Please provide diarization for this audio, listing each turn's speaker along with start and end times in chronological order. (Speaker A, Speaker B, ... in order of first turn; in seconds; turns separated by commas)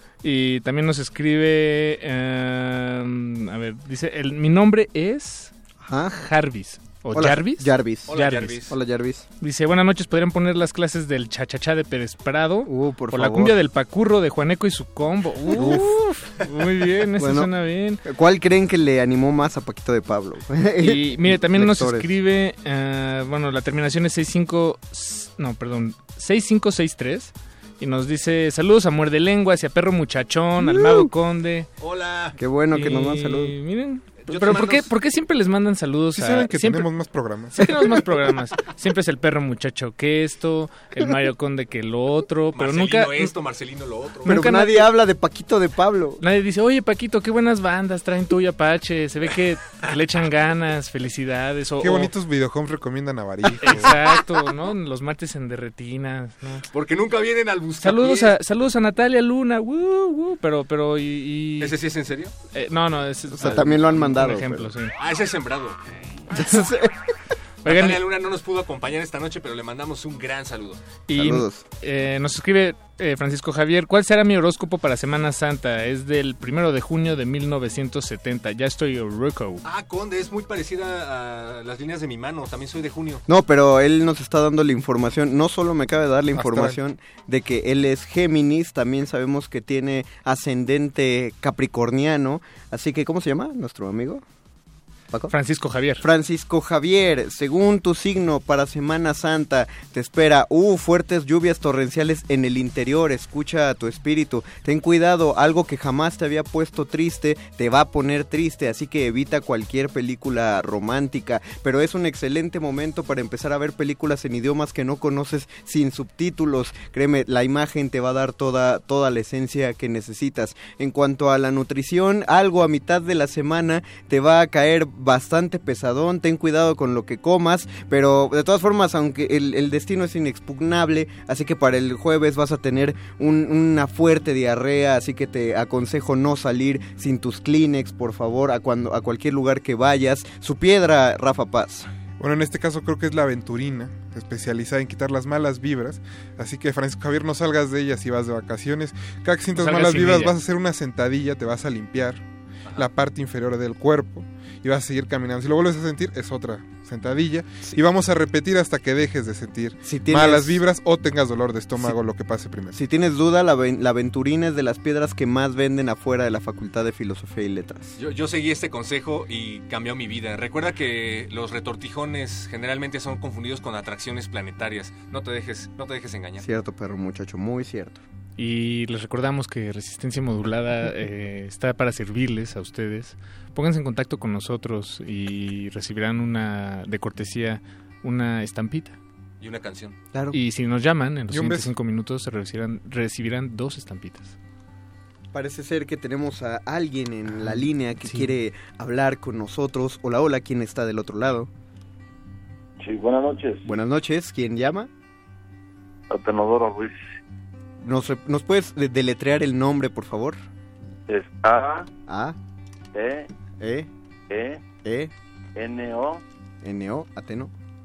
Speaker A: 0.2-5.5, Speaker B: 5.8-6.2, Speaker A: 6.1-8.7, Speaker B: 7.1-8.1, Speaker C: 8.1-8.8, Speaker B: 8.7-9.3, Speaker A: 9.4-18.0, Speaker B: 12.7-13.5, Speaker B: 15.5-16.1, Speaker B: 17.2-17.5, Speaker B: 18.1-22.1, Speaker A: 20.8-31.7, Speaker B: 30.6-31.1, Speaker C: 31.8-32.4, Speaker B: 32.4-33.6, Speaker A: 32.7-36.9, Speaker C: 34.3-34.9, Speaker D: 36.1-37.9, Speaker A: 37.6-43.3, Speaker C: 42.6-44.4, Speaker A: 44.2-44.9, Speaker B: 44.3-46.2, Speaker A: 46.2-52.1, Speaker D: 51.8-54.0, Speaker A: 53.6-56.6, Speaker C: 56.7-58.3, Speaker A: 57.8-61.7, Speaker C: 61.6-62.3, Speaker A: 62.5-64.9, Speaker B: 63.3-64.7, Speaker C: 65.0-65.8, Speaker B: 66.3-66.9, Speaker C: 67.6-70.8, Speaker A: 67.7-68.0, Speaker A: 71.1-79.6, Speaker B: 71.1-71.7, Speaker C: 79.6-83.2, Speaker B: 83.3-94.2, Speaker D: 86.3-86.8, Speaker A: 95.3-96.1, Speaker B: 96.0-141.9, Speaker D: 142.2-152.2, Speaker A: 149.6-150.4, Speaker D: 152.8-162.8, Speaker B: 159.8-160.6, Speaker B: 162.7-167.9, Speaker C: 168.0-176.5, Speaker B: 176.4-178.0, Speaker A: 178.4-189.0, Speaker C: 189.4-190.0, Speaker B: 190.1-190.4, Speaker A: 190.3-194.4, Speaker D: 191.3-191.7, Speaker B: 195.3-201.5, Speaker A: 197.4-198.3, Speaker E: 202.8-203.7, Speaker B: 203.7-204.9, Speaker E: 206.1-207.0, Speaker B: 207.8-210.4, Speaker E: 211.1-211.9, Speaker B: 212.1-212.4, Speaker E: 212.9-213.3, Speaker B: 213.6-213.9, Speaker E: 214.3-214.7, Speaker B: 214.8-215.1, Speaker E: 215.6-216.2, Speaker B: 216.6-217.5